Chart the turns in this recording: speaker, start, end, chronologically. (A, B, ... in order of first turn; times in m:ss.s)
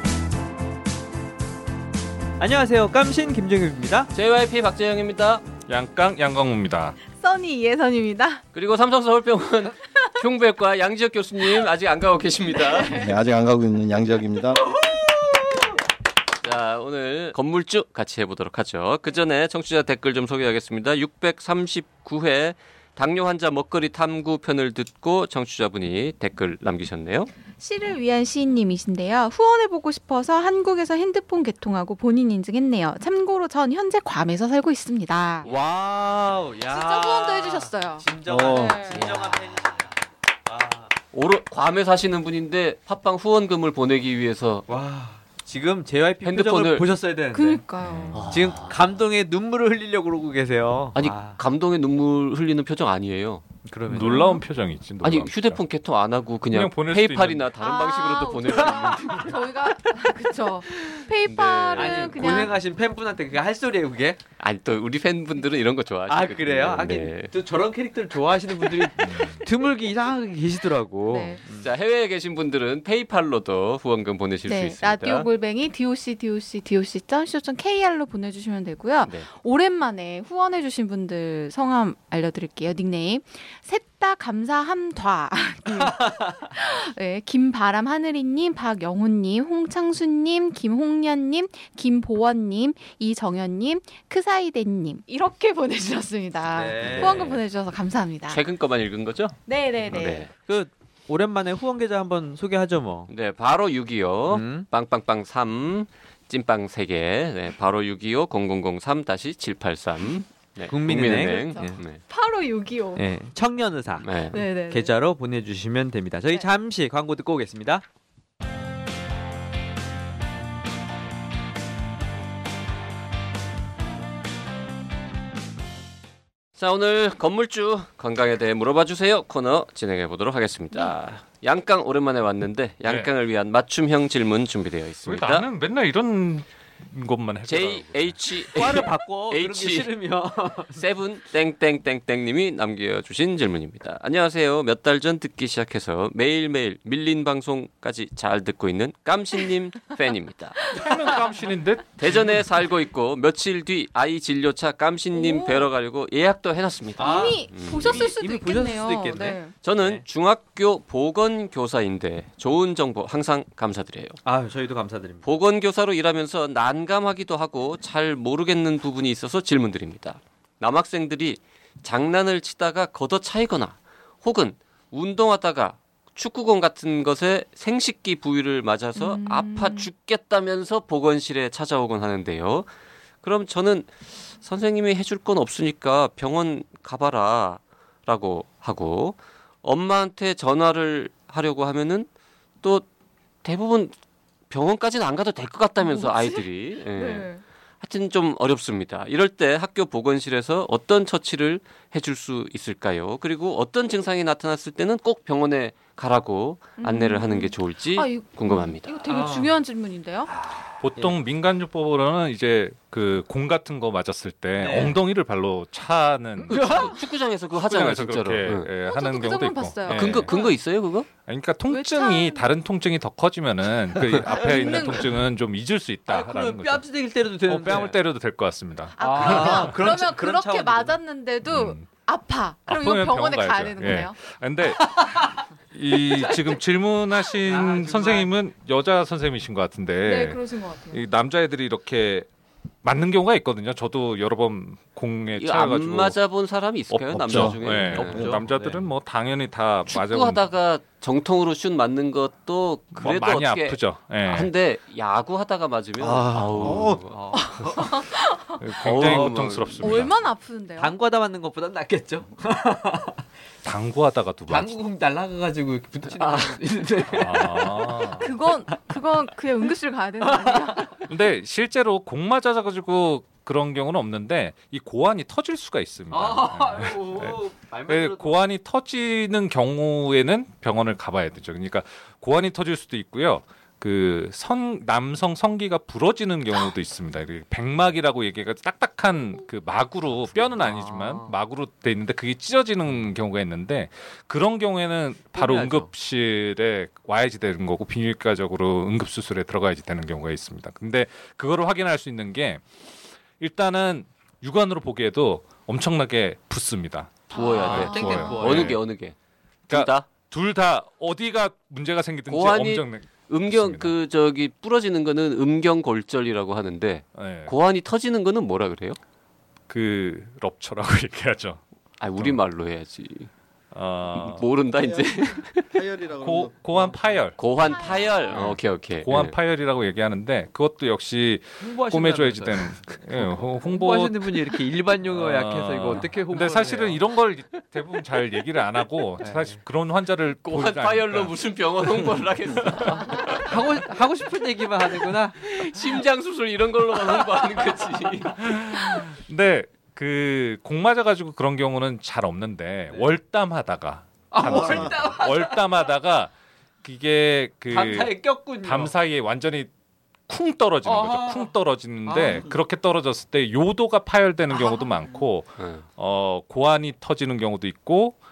0:02.4-0:04.1 A
0:04.1-0:05.4 B
0:05.7-0:07.0 C
0:07.1-0:08.4 D
0:08.5-0:13.1 B
0:12.6-0:13.1 D
0:12.9-0:14.8 E
0:16.4-0:27.3 B
0:27.6-0:35.5 D
0:35.4-0:40.0 A
0:36.7-0:39.1 D
0:38.3-0:38.8 E
0:38.9-0:39.5 B
0:40.5-0:40.9 A
0:41.1-0:44.7 B
0:44.7-0:47.6 A
0:46.2-0:46.9 B
0:47.3-0:48.2 D
0:47.8-0:48.5 C
0:48.1-0:48.8 B
0:48.3-0:51.4 A
0:51.0-0:53.4 B
0:53.7-0:54.4 A
0:53.9-0:55.6 C
0:54.0-0:54.4 D
0:55.0-0:59.5 B
0:56.5-0:57.5 C
0:57.6-1:02.6 D
1:01.2-1:02.5 B
1:01.8-1:04.2 A
1:04.4-1:07.3 B
1:06.1-1:11.7 A
1:09.0-1:09.4 C
1:11.1-1:11.4 D
1:11.6-1:15.3 B
1:14.5-1:38.4 D
1:25.7-1:26.4 A
1:36.5-1:37.2 A
1:36.8-1:37.4 B
1:38.3-1:40.3 B
1:39.5-1:40.3 D
1:40.5-1:43.1 A
1:43.1-1:52.0 B
1:44.3-1:44.7 A
1:50.6-1:51.8 A
1:50.9-1:53.1 D
1:53.0-1:57.8 A
1:54.0-1:54.4 B
1:54.3-1:54.9 D
2:06.6-2:15.5 B
2:15.0-2:18.4 C
2:17.5-2:19.9 B
2:18.5-2:20.8 A
2:20.8-2:30.8 B
2:30.7-2:32.4 C
2:32.0-2:38.1 B
2:35.1-2:35.7 D
2:37.0-2:40.0 A
2:37.0-2:39.6 D
2:39.6-2:44.2 B
2:44.2-2:45.2 A
2:45.2-3:02.7 B
2:59.0-2:59.9 D
3:03.2-3:12.1 B
3:13.4-3:14.0 B
3:14.5-3:29.0 B
3:15.8-3:17.4 D
3:26.8-3:30.3 D
3:29.1-3:29.5 A
3:30.3-3:30.8 B
3:30.8-3:36.9 C
3:34.6-3:35.0 A
3:36.5-3:37.0 A
3:36.8-3:38.7 B
3:37.5-3:40.3 C
3:38.8-3:40.6 D
3:39.9-3:41.1 B
3:41.2-3:46.8 C
3:41.7-3:42.5 D
3:44.2-3:45.1 D
3:44.3-3:45.0 A
3:46.1-3:48.0 A
3:47.5-3:49.8 C
3:49.0-3:54.2 D
3:49.0-3:51.0 A
3:51.5-3:51.9 C
3:52.7-3:55.2 C
3:54.8-3:55.4 A
3:55.7-4:02.3 C
3:56.1-3:56.6 A
3:57.4-3:58.3 A
4:00.0-4:01.0 D
4:02.8-4:06.2 C
4:05.4-4:08.2 B
4:06.9-4:08.3 E
4:07.3-4:10.5 C
4:07.9-4:08.9 A
4:09.9-4:17.2 B
4:12.9-4:14.5 C
4:16.0-4:17.0 E
4:17.1-4:18.0 A
4:17.3-4:18.6 D
4:18.6-4:20.2 C
4:18.8-4:20.1 B
4:19.0-4:19.4 A
4:19.8-4:20.9 D
4:20.8-4:23.2 A
4:23.6-4:24.7 C
4:24.5-4:28.9 A
4:26.2-4:26.6 B
4:27.1-4:28.3 C
4:28.2-4:31.1 D
4:30.2-4:30.9 A
4:31.1-5:02.6 C
4:36.1-4:38.4 A
4:50.4-4:51.4 A
4:55.3-4:55.9 A
5:03.4-5:08.8 C
5:07.3-5:09.2 B
5:07.3-5:08.4 D
5:07.5-5:08.8 A
5:09.7-5:10.1 B
5:09.7-5:13.9 C
5:12.3-5:19.0 B
5:17.2-5:17.5 C
5:19.7-5:21.6 C
5:22.0-5:23.3 B
5:23.7-5:24.5 C
5:24.2-5:25.8 B
5:24.8-5:27.2 E
5:26.2-5:41.3 C
5:27.4-5:29.4 B
5:27.6-5:28.6 D
5:31.6-5:37.0 A
5:39.2-5:39.6 A
5:40.4-5:43.5 B
5:41.9-5:42.9 C
5:42.8-5:45.5 A
5:44.9-5:48.5 B
5:48.4-5:56.3 C
5:54.3-5:55.8 A
5:54.4-5:54.9 E
5:56.8-5:59.7 C
5:57.7-5:59.0 A
6:00.3-6:08.2 C
6:00.8-6:01.5 A
6:02.0-6:02.5 A
6:04.5-6:05.1 D
6:05.6-6:05.8 B